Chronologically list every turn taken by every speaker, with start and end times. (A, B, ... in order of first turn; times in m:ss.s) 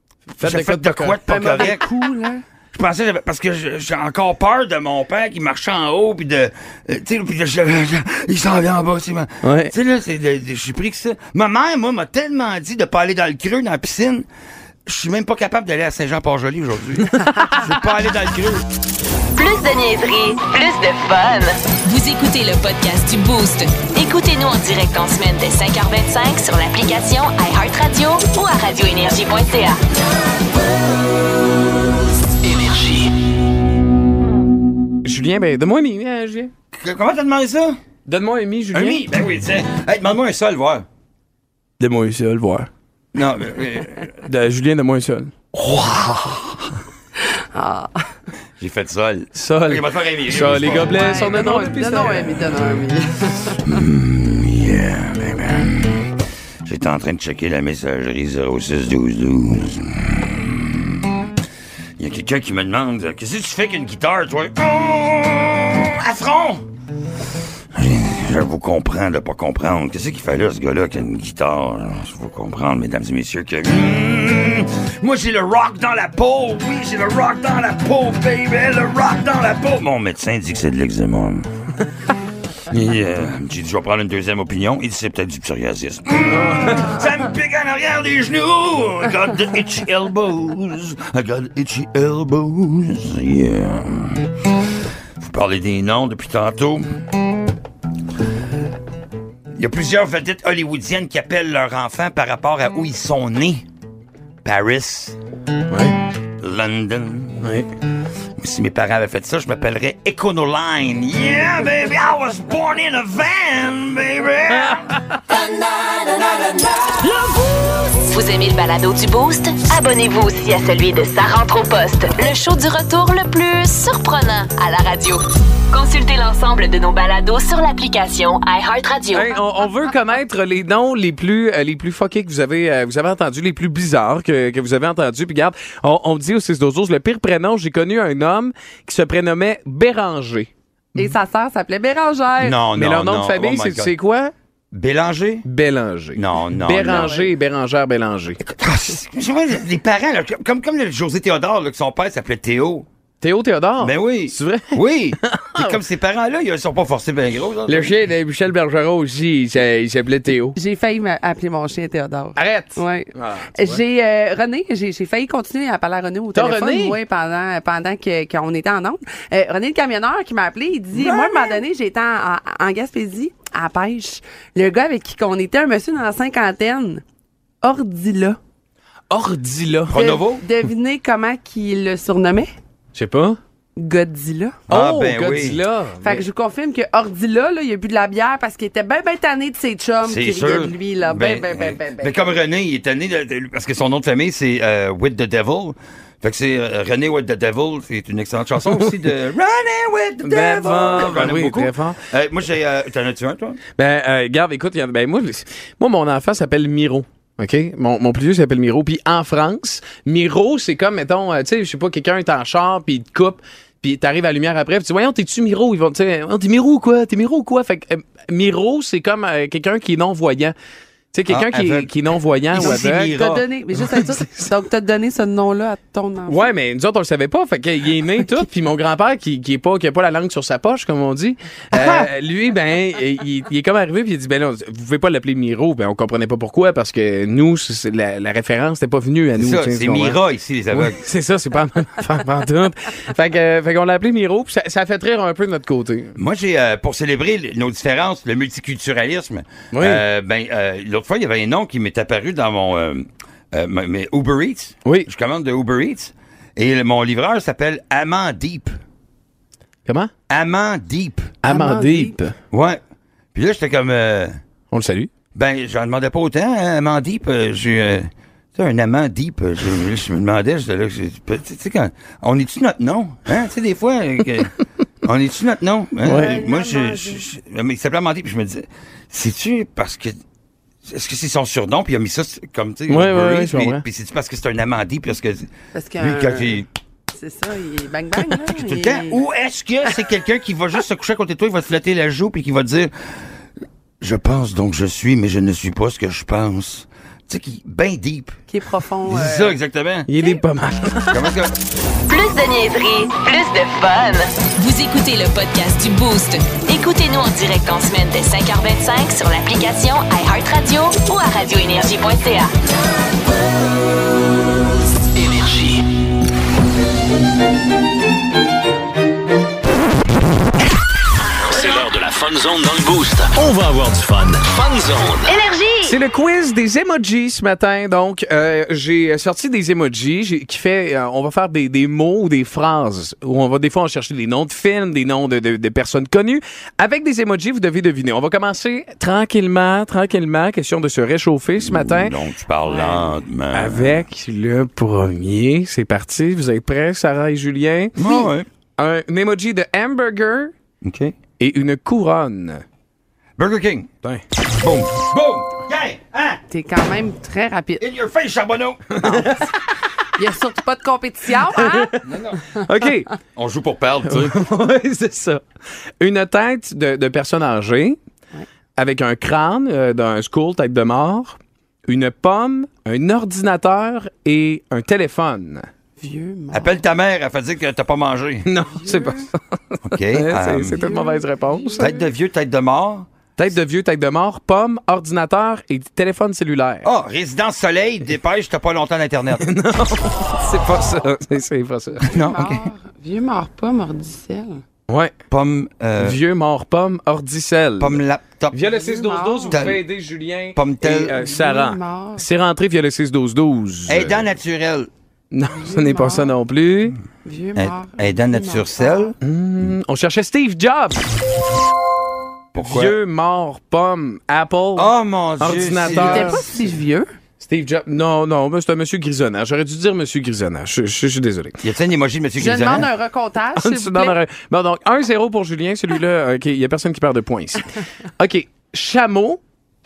0:00.4-0:01.7 A
0:00.4-0:01.9 B
0:01.3-0:02.4 C
0:02.7-0:14.3 B
0:09.4-0:09.7 A
0:14.9-0:18.6 B
0:17.0-0:17.6 A
0:19.4-0:29.8 D
0:32.5-0:33.1 D
0:35.0-0:36.5 A
0:36.8-0:37.8 B
0:38.1-0:39.0 A
0:38.7-0:40.8 B
0:41.8-0:42.7 A
0:43.1-0:44.2 B
0:44.2-0:45.3 A
0:45.5-0:46.6 B
0:47.5-0:48.0 C
0:48.6-0:51.0 B
0:49.4-0:52.4 A
0:50.8-0:53.6 C
0:53.7-0:56.1 B
0:56.6-1:00.9 B
1:02.0-1:06.6 B
1:07.7-1:21.5 B
1:22.7-1:34.3 B
1:35.2-1:36.9 B
1:39.6-1:43.6 B
1:44.4-1:45.2 B
1:45.7-1:46.0 A
1:46.4-1:47.4 B
1:47.4-1:47.7 A
1:48.4-1:54.9 B
1:58.0-2:09.3 D
2:09.1-2:21.1 A
2:21.0-2:22.6 C
2:22.4-2:23.9 B
2:22.7-2:24.3 A
2:24.7-2:25.5 B
2:25.4-2:28.4 A
2:26.2-2:27.1 B
2:26.9-2:27.3 C
2:28.4-2:32.9 B
2:33.2-2:35.8 A
2:33.8-2:37.9 B
2:37.7-2:40.6 A
2:40.6-2:57.0 C
2:42.4-2:43.8 A
2:46.3-2:47.0 A
2:51.0-2:51.4 A
2:57.6-2:58.4 C
2:59.1-3:00.0 A
2:59.9-3:00.4 B
2:59.9-3:02.5 C
3:02.9-3:03.4 A
3:03.8-3:04.6 C
3:04.7-3:05.6 B
3:04.7-3:06.2 A
3:06.0-3:12.2 C
3:10.0-3:23.6 B
3:20.3-3:22.0 A
3:23.8-3:40.6 A
3:41.1-3:43.2 A
3:41.3-3:41.9 B
3:42.5-3:43.4 B
3:42.6-3:46.4 C
3:46.3-4:00.2 A
3:51.7-3:52.1 B
3:59.4-4:01.1 B
4:00.7-4:06.2 A
4:06.2-4:18.8 B
4:09.7-4:10.0 A
4:19.8-4:20.1 A
4:20.3-4:21.4 B
4:21.4-4:22.4 A
4:21.5-4:22.2 C
4:22.5-4:22.8 B
4:23.3-4:24.4 B
4:24.7-4:25.1 A
4:25.4-4:34.5 B
4:35.0-4:40.2 B
4:36.0-4:36.4 A
4:36.1-4:37.2 C
4:40.9-4:45.5 B
4:42.9-4:43.8 A
4:45.7-4:46.6 C
4:46.0-4:46.7 B
4:47.1-4:49.2 C
4:48.4-4:52.9 B
4:54.0-4:58.4 B
4:58.5-4:59.6 C
4:59.0-5:00.1 B
5:00.1-5:01.3 A
5:01.1-5:01.6 B
5:02.1-5:12.5 D
5:15.2-5:15.8 E
5:21.4-5:25.3 E
5:25.3-5:25.7 D
5:25.8-5:42.2 A
5:41.6-5:44.0 B
5:43.5-5:50.5 A
5:48.0-5:48.5 B
5:50.8-5:51.2 B
5:51.4-5:52.6 A
5:53.4-5:53.9 B
5:54.6-5:56.4 B
5:56.5-5:57.8 C
5:57.8-5:59.3 B
5:58.9-5:59.6 A
6:00.2-6:02.0 C
6:01.5-6:01.9 A
6:02.0-6:02.4 B
6:02.5-6:03.1 A
6:03.4-6:04.4 B
6:04.1-6:05.4 A
6:06.0-6:08.0 A
6:08.8-6:15.7 A
6:16.0-6:16.8 C
6:16.5-6:18.5 B
6:18.4-6:22.0 A
6:18.8-6:19.3 C
6:19.9-6:20.8 B
6:20.7-6:21.8 C
6:21.8-6:23.1 B
6:23.4-6:26.9 A
6:26.8-6:29.5 B
6:29.4-6:32.1 A
6:32.1-6:32.7 B
6:32.1-6:34.6 C
6:35.3-6:36.2 B
6:36.0-6:44.2 A
6:37.8-6:38.6 B
6:38.8-6:39.6 C
6:39.5-6:39.8 B
6:40.6-6:41.2 B
6:41.1-6:42.2 C
6:43.9-6:44.9 B
6:45.3-6:47.0 A
6:45.6-6:46.4 C
6:47.2-6:49.1 C
6:47.6-6:49.2 B
6:49.2-6:51.0 A
6:52.5-6:53.0 B
6:52.6-6:56.4 A
6:54.8-6:56.4 B
6:55.9-6:57.1 C
6:57.4-7:01.6 A
7:01.6-7:02.9 B
7:02.4-7:04.2 C
7:03.6-7:09.4 A